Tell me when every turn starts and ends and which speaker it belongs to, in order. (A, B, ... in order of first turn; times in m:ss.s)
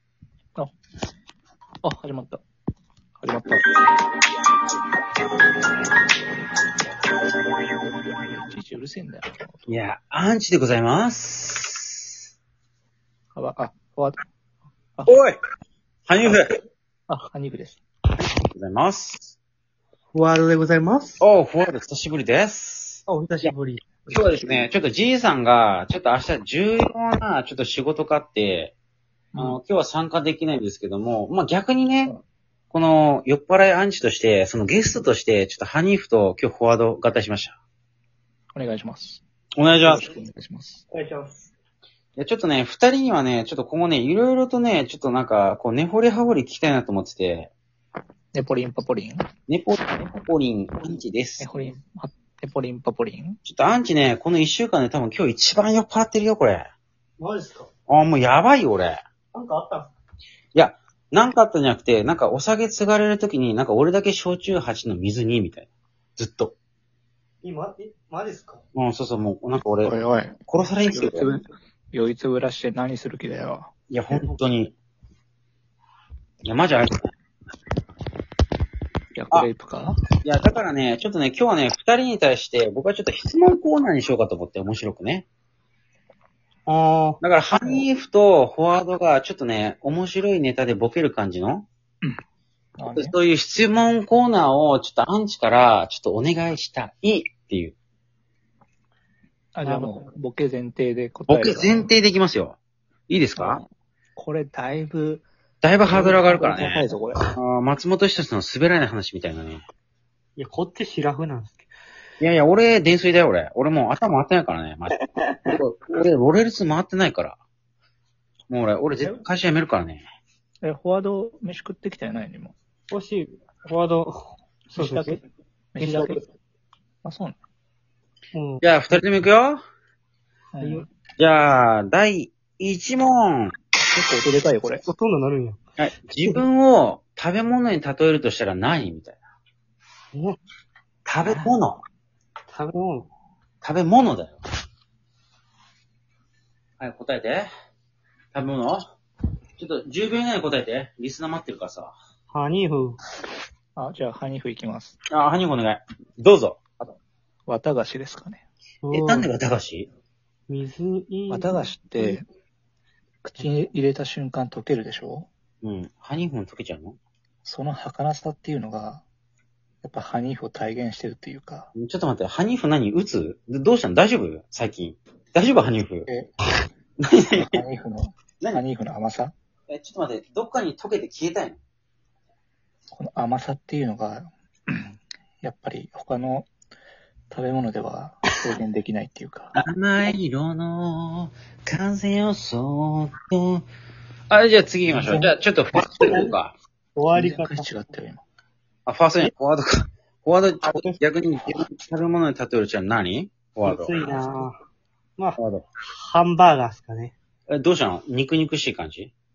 0:01.8-0:02.4 A
0:03.2-0:03.6 A
0:08.3-0:09.8 A
0:09.7-0:12.1 B
0:13.4-0:14.2 A
0:15.1-0:15.4 B
0:16.1-0:16.5 B
0:17.1-0:17.8 A
0:18.2-0:19.4 B
0:20.1-0:21.2 C
0:21.2-0:23.5 B
0:23.1-0:24.7 C
0:24.1-0:28.8 B
0:29.3-0:29.6 A
0:29.4-0:32.1 B
0:32.7-0:37.6 B
0:38.5-0:39.2 A
0:39.6-0:40.1 B
0:39.8-0:40.8 A
0:40.9-0:41.5 C
0:42.2-0:47.5 B
0:48.3-0:49.2 A
0:49.5-0:51.5 B
0:51.4-0:53.4 A
0:53.4-0:56.7 B
0:57.2-0:57.7 C
0:57.9-0:59.0 B
0:59.3-0:59.9 C
1:00.5-1:06.6 B
1:07.4-1:08.6 C
1:08.8-1:10.0 B
1:09.8-1:10.4 A
1:10.5-1:11.4 B
1:10.9-1:13.7 A
1:13.9-1:14.7 B
1:16.4-1:17.1 B
1:19.2-1:20.0 A
1:20.2-1:25.3 B
1:26.7-1:27.9 C
1:27.2-1:31.7 B
1:32.8-1:33.2 A
1:32.9-1:37.8 B
1:39.6-1:41.9 A
1:39.6-1:40.1 C
1:41.3-1:42.6 B
1:43.1-1:43.6 B
1:43.4-1:43.6 A
1:44.2-1:45.2 A
1:45.6-1:49.6 B
1:45.9-1:47.3 A
1:50.4-1:51.7 C
1:52.2-1:54.9 B
1:55.2-1:55.5 C
1:55.5-1:57.4 B
1:58.5-2:00.0 B
2:00.6-2:02.5 A
2:02.9-2:05.2 C
2:04.8-2:05.2 A
2:05.8-2:06.2 A
2:05.8-2:06.2 C
2:07.0-2:07.4 A
2:08.3-2:08.6 C
2:08.6-2:09.6 B
2:10.5-2:10.9 A
2:10.6-2:10.9 C
2:11.2-2:13.5 B
2:13.9-2:14.8 A
2:14.8-2:15.6 C
2:15.8-2:19.2 B
2:21.0-2:21.8 B
2:21.2-2:21.6 A
2:22.5-2:23.1 C
2:23.6-2:24.4 B
2:26.8-2:27.5 B
2:28.3-2:28.9 B
2:29.6-2:32.0 B
2:32.3-2:33.0 C
2:33.8-2:35.0 A
2:35.1-2:36.9 B
2:37.5-2:38.4 A
2:38.8-2:39.3 C
2:38.9-2:39.9 B
2:40.5-2:42.2 C
2:41.3-2:42.2 A
2:43.2-2:45.3 A
2:45.6-2:47.0 B
2:47.4-2:49.0 A
2:49.8-2:51.7 A
2:51.8-2:56.1 B
2:57.0-2:57.6 B
2:57.3-2:59.3 A
2:59.7-3:01.6 B
3:02.9-3:06.5 A
3:07.3-3:09.6 A
3:09.6-3:13.6 B
3:14.3-3:16.5 B
3:14.9-3:15.3 A
3:15.9-3:16.3 C
3:17.0-3:17.7 C
3:17.1-3:18.2 A
3:18.9-3:24.1 B
3:20.6-3:21.0 C
3:23.6-3:24.6 C
3:25.2-3:27.1 C
3:25.4-3:25.6 B
3:27.5-3:29.1 B